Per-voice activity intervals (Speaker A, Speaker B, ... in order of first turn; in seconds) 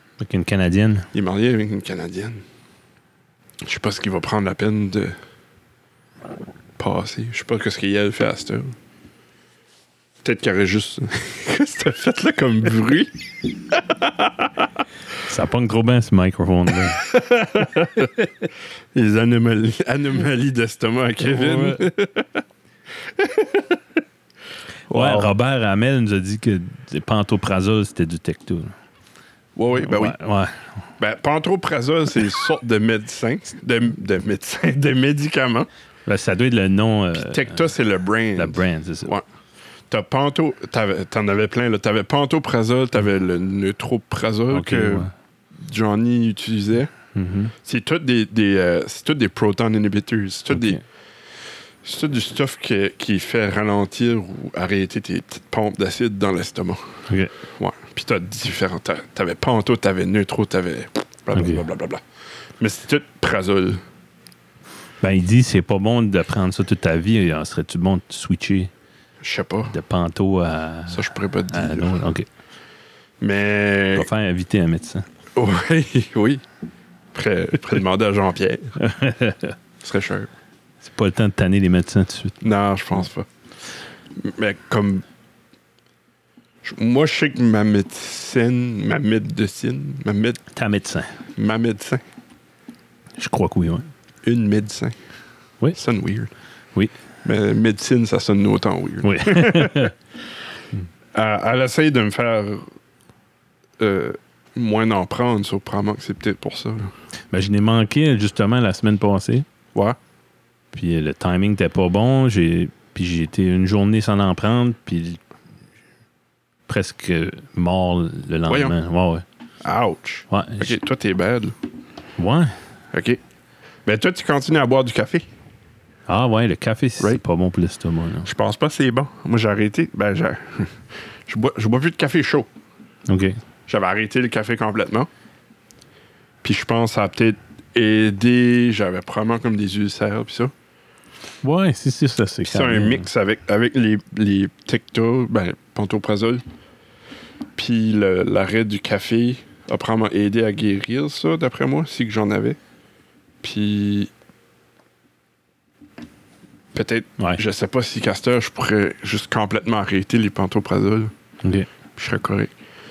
Speaker A: 0.2-1.1, 15.2-17.0, 21.2-21.8, 24.9-28.7, 29.8-30.6, 36.0-37.7, 38.4-39.1, 44.5-45.1, 47.1-47.5, 50.5-50.8, 61.3-61.6, 65.0-68.7, 69.7-72.3, 73.9-75.1, 78.8-79.5, 80.8-82.4, 90.5-91.1, 93.2-93.9, 99.0-99.9, 107.3-109.5, 110.7-115.2, 116.7-119.2, 120.3-120.8, 122.2-122.5, 126.1-128.3, 133.1-133.4, 141.4-143.1, 161.4-161.7
Speaker B: 1.1-2.4, 3.6-5.2, 6.8-8.7, 10.2-14.7, 16.9-18.1, 18.9-22.4, 23.0-23.8, 24.9-25.3, 29.6-30.2, 31.0-35.7, 37.1-39.2, 39.9-46.9, 47.6-50.8, 51.8-57.0, 57.5-62.0, 62.6-63.8, 69.2-69.7, 70.9-72.0, 73.2-74.1, 75.3-76.4, 77.1-78.8, 79.8-80.3, 82.4-83.3, 84.2-85.0, 86.6-90.4, 91.4-92.0, 94.2-95.0, 95.7-96.3, 97.2-99.9, 101.1-102.7, 103.8-106.9, 118.5-118.7, 119.6-121.5, 122.9-123.2, 123.8-125.3, 128.2-132.5, 133.7-135.1, 136.4-140.5, 142.4-146.4, 147.6-152.6, 153.4-154.1, 156.7-161.1, 161.9-162.5